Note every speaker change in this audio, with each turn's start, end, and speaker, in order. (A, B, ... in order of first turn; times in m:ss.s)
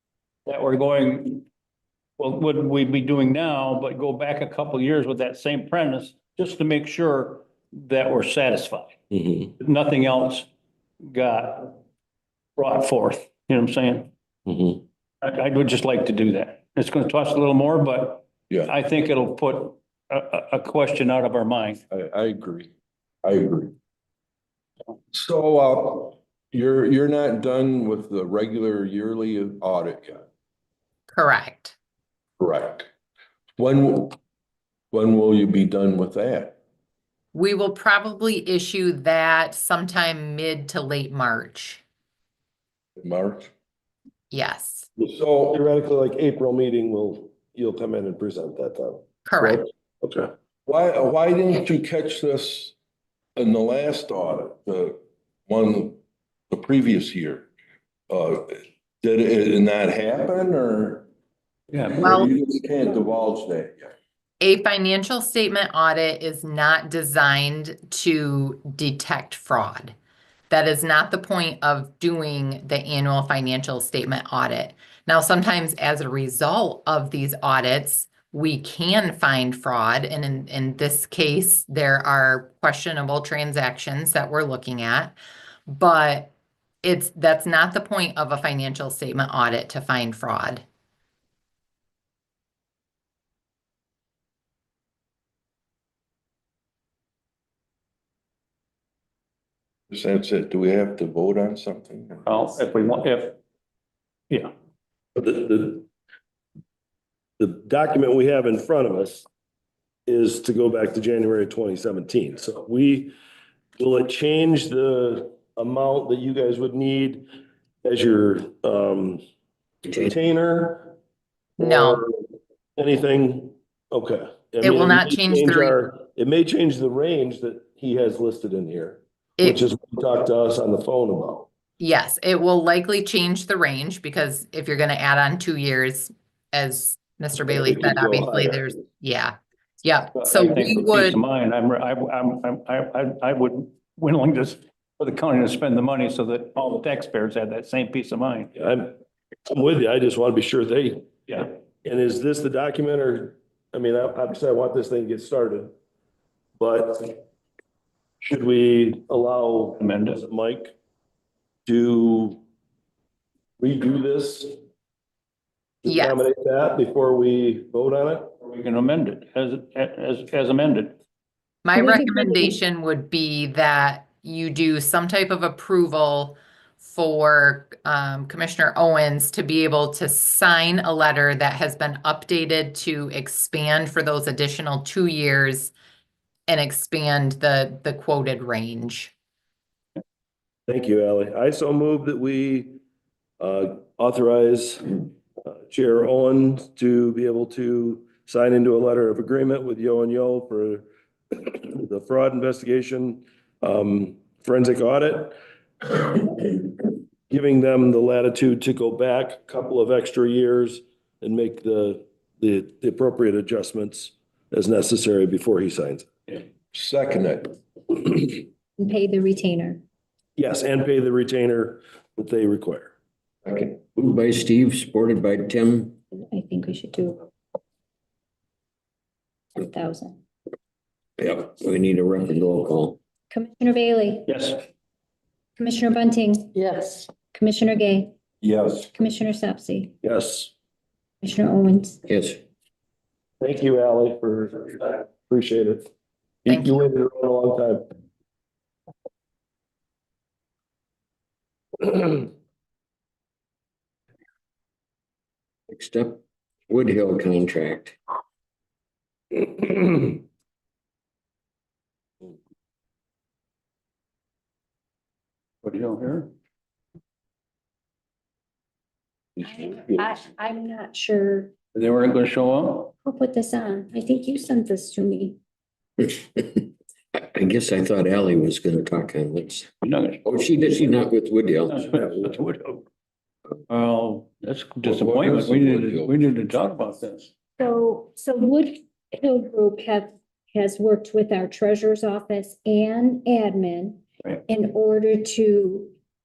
0:00.4-0:01.4 A
0:02.2-0:09.0 A
0:09.1-0:09.5 B
0:09.6-0:10.5 A
0:11.0-0:11.8 A
0:12.6-0:14.1 A
0:14.4-0:14.8 B
0:15.2-0:21.8 A
0:21.9-0:22.7 C
0:23.2-0:23.7 C
0:25.1-0:30.2 C
0:31.1-0:31.7 D
0:32.4-0:32.9 C
0:33.6-0:34.2 C
0:34.9-0:36.6 C
0:37.3-0:41.8 D
0:43.0-0:43.5 C
0:44.3-0:44.9 D
0:45.0-0:45.6 C
0:45.5-0:50.3 B
0:49.2-0:49.6 D
0:50.6-0:52.7 C
0:53.4-0:56.0 C
0:56.5-0:57.5 C
0:58.1-1:01.1 C
1:01.7-1:02.0 A
1:01.8-1:03.9 C
1:02.0-1:02.3 D
1:04.4-1:09.9 D
1:10.5-1:25.2 D
1:25.7-1:26.3 D
1:26.8-1:30.6 D
1:39.9-1:42.3 C
1:42.2-1:43.4 A
1:45.2-1:45.8 B
1:47.4-1:49.2 B
1:50.1-1:53.1 B
1:53.8-1:57.2 B
1:57.8-1:59.2 B
1:59.9-2:00.9 B
2:01.6-2:02.0 D
2:01.6-2:02.2 B
2:02.8-2:11.5 B
2:04.6-2:05.8 D
2:09.4-2:09.6 D
2:11.8-2:21.2 D
2:17.4-2:18.6 B
2:20.1-2:28.5 A
2:28.6-2:28.9 B
2:29.5-2:31.1 B
2:31.8-2:35.7 B
2:36.6-2:37.2 B
2:38.2-2:40.7 B
2:39.8-2:40.2 A
2:41.6-2:42.4 B
2:43.6-2:44.6 B
2:45.8-2:48.3 B
2:45.8-2:46.2 D
2:48.4-2:51.0 A
2:51.6-3:05.7 D
2:51.7-2:52.6 E
3:06.5-3:09.1 D
3:10.7-3:12.8 B
3:13.4-3:36.1 B
3:36.7-3:37.6 C
3:38.8-3:39.8 E
3:40.4-3:42.9 B
3:43.7-3:46.0 F
3:46.2-3:47.3 E
3:49.6-3:50.2 E
3:51.2-3:53.0 F
3:53.3-3:54.3 E
3:54.3-3:54.6 A
3:55.6-3:58.1 E
3:58.4-3:58.9 C
3:58.9-3:59.9 E
4:00.0-4:00.5 B
4:01.2-4:02.0 E
4:02.0-4:02.4 F
4:03.4-4:05.9 B
4:06.4-4:07.8 B
4:06.5-4:06.8 D
4:11.8-4:12.2 B
4:15.7-4:18.0 F
4:19.6-4:20.1 B
4:25.6-4:26.3 A
4:29.4-4:31.5 E
4:31.7-4:32.9 A
4:33.0-4:35.4 E
4:36.0-4:39.7 F
4:39.8-4:40.9 A
4:40.2-4:42.3 F
4:41.6-4:42.8 A
4:43.7-4:47.3 A
4:44.8-4:46.2 F
4:47.6-4:55.9 E